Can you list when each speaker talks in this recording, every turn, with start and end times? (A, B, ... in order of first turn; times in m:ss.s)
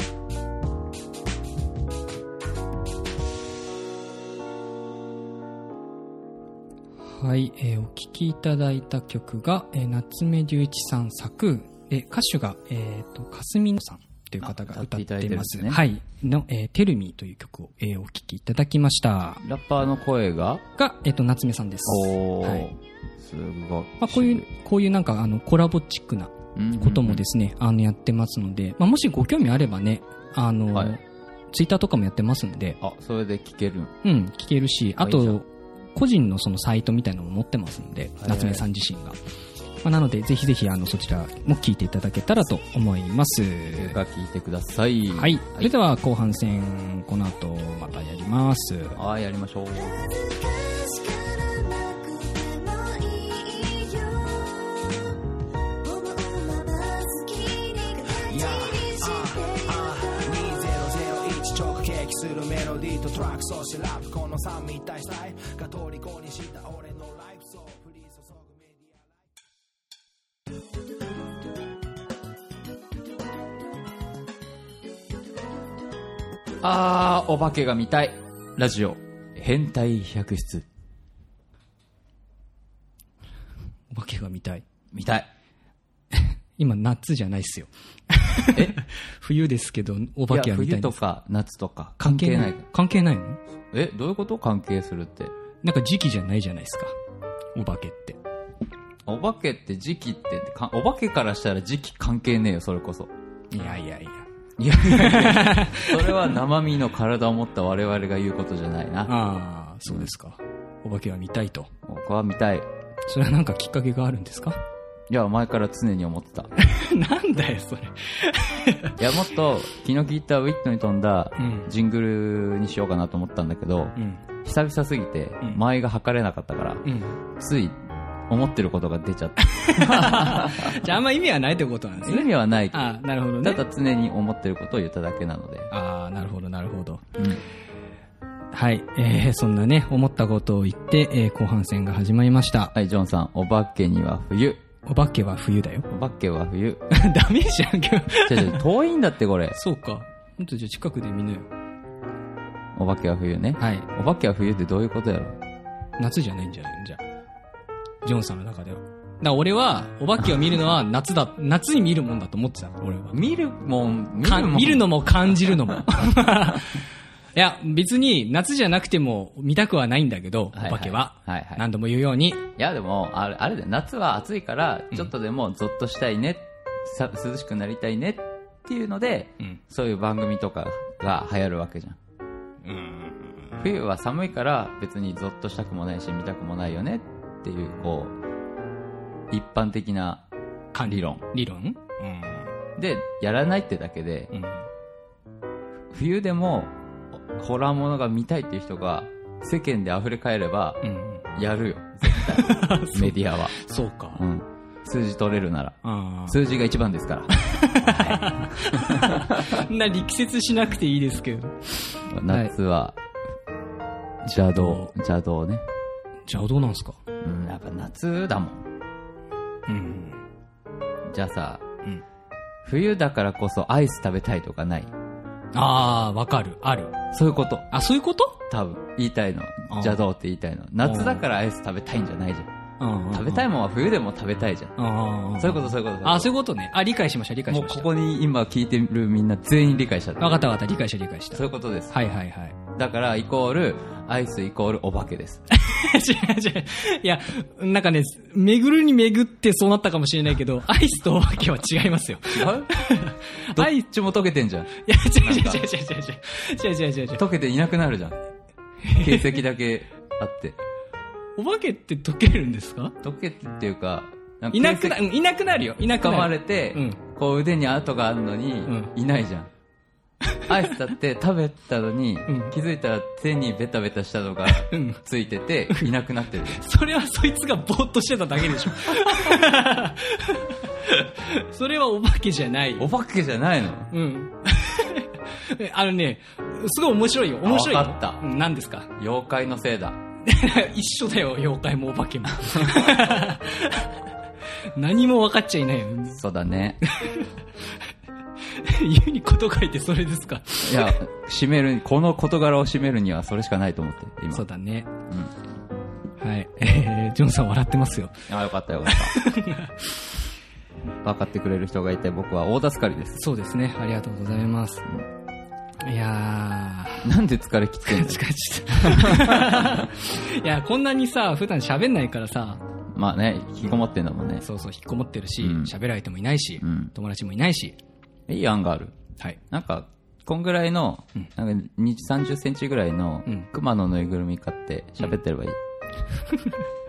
0:07.0-0:19.4 A
0:14.4-0:15.8 B
0:19.4-0:20.6 B
0:20.8-0:22.7 A
0:21.8-0:24.4 B
0:24.0-0:31.0 A
0:26.6-0:27.2 B
0:31.5-0:32.8 A
0:32.8-0:33.9 B
0:34.0-0:39.2 A
0:35.0-0:35.4 B
0:38.2-0:38.6 B
0:39.8-0:44.0 A
0:43.7-0:45.7 B
0:45.1-0:49.0 A
0:48.9-0:50.0 B
0:49.8-0:55.2 C
0:55.8-1:00.0 C
0:58.3-1:09.1 D
1:16.6-1:20.6 B
1:23.9-1:24.6 A
1:24.9-1:25.3 B
1:26.1-1:31.0 A
1:30.3-1:32.6 B
1:32.0-1:33.4 A
1:33.7-1:35.3 B
1:35.6-1:36.9 A
1:37.5-1:38.2 A
1:39.1-1:43.1 B
1:43.5-1:46.3 A
1:44.6-1:49.1 B
1:49.1-1:51.7 A
1:51.8-1:52.7 B
1:53.1-1:54.6 A
1:55.1-1:56.5 B
1:56.6-1:59.0 A
1:59.0-2:06.8 B
2:01.4-2:01.7 A
2:04.0-2:04.2 A
2:06.8-2:07.2 A
2:07.4-2:07.8 B
2:08.3-2:10.8 B
2:09.4-2:13.6 A
2:12.0-2:12.8 B
2:13.4-2:15.7 B
2:15.7-2:17.0 A
2:18.5-2:22.7 A
2:22.7-2:24.6 B
2:24.8-2:25.9 A
2:25.9-2:26.8 B
2:26.9-2:28.6 A
2:28.2-2:29.6 B
2:29.6-2:31.5 A
2:32.8-2:35.4 B
2:33.6-2:33.9 A
2:36.0-2:37.0 A
2:38.0-2:43.2 A
2:43.1-2:45.0 B
2:44.2-2:46.8 A
2:47.3-2:52.4 A
2:50.5-2:51.6 B
2:52.6-3:02.0 B
3:02.6-3:03.6 A
3:03.6-3:08.1 B
3:09.3-3:10.2 B
3:10.7-3:12.5 A
3:10.8-3:11.2 B
3:12.8-3:14.3 B
3:14.3-3:14.6 A
3:15.9-3:20.8 B
3:20.8-3:21.3 A
3:21.3-3:23.5 B
3:22.1-3:24.2 A
3:24.2-3:25.8 B
3:25.8-3:26.4 A
3:26.3-3:27.3 B
3:27.3-3:32.5 A
3:27.8-3:29.6 B
3:32.1-3:33.0 B
3:34.2-3:35.6 B
3:34.5-3:34.9 A
3:36.3-3:37.0 A
3:37.2-3:38.6 B
3:39.7-3:40.2 A
3:41.1-3:41.6 B
3:42.6-3:44.9 B
3:45.5-3:47.0 A
3:47.1-3:47.6 B
3:47.7-3:48.4 A
3:48.5-3:52.5 B
3:49.7-3:50.0 A
3:50.8-3:51.2 A
3:52.8-3:53.4 A
3:53.1-3:54.8 B
3:54.8-3:57.8 A
3:55.4-3:56.3 B
3:57.5-4:00.4 B
4:00.2-4:02.6 A
4:01.3-4:01.9 B
4:02.7-4:05.4 B
4:05.5-4:13.8 A
4:12.3-4:12.7 B
4:13.5-4:15.6 B
4:14.8-4:17.2 A
4:17.2-4:18.2 B
4:18.8-4:19.4 A
4:18.9-4:20.6 B
4:21.4-4:22.9 A
4:23.0-4:25.0 B
4:24.5-4:27.0 A
4:26.0-4:29.5 B
4:28.7-4:28.9 A
4:30.2-4:30.6 A
4:30.5-4:36.6 B
4:32.3-4:32.5 A
4:34.5-4:35.0 A
4:36.5-4:42.9 A
4:42.8-4:43.9 B
4:43.9-4:48.9 A
4:47.4-4:48.2 B
4:49.0-4:50.0 B
4:50.2-4:54.0 A
4:54.7-4:56.2 A
4:56.1-4:56.8 B
4:56.8-4:57.3 A
4:58.5-5:01.0 A
5:00.6-5:04.4 B
5:04.3-5:04.9 A
5:06.2-5:08.2 A
5:08.3-5:09.1 B
5:08.8-5:10.0 A
5:11.0-5:13.2 B
5:13.2-5:14.8 A
5:15.8-5:17.1 A
5:17.0-5:18.2 B
5:17.8-5:22.6 A
5:18.7-5:19.9 B
5:22.9-5:24.4 B
5:24.4-5:27.8 A
5:25.4-5:25.7 B
5:26.6-5:26.9 B
5:28.3-5:29.0 B
5:29.5-5:35.6 B
5:36.3-5:36.6 A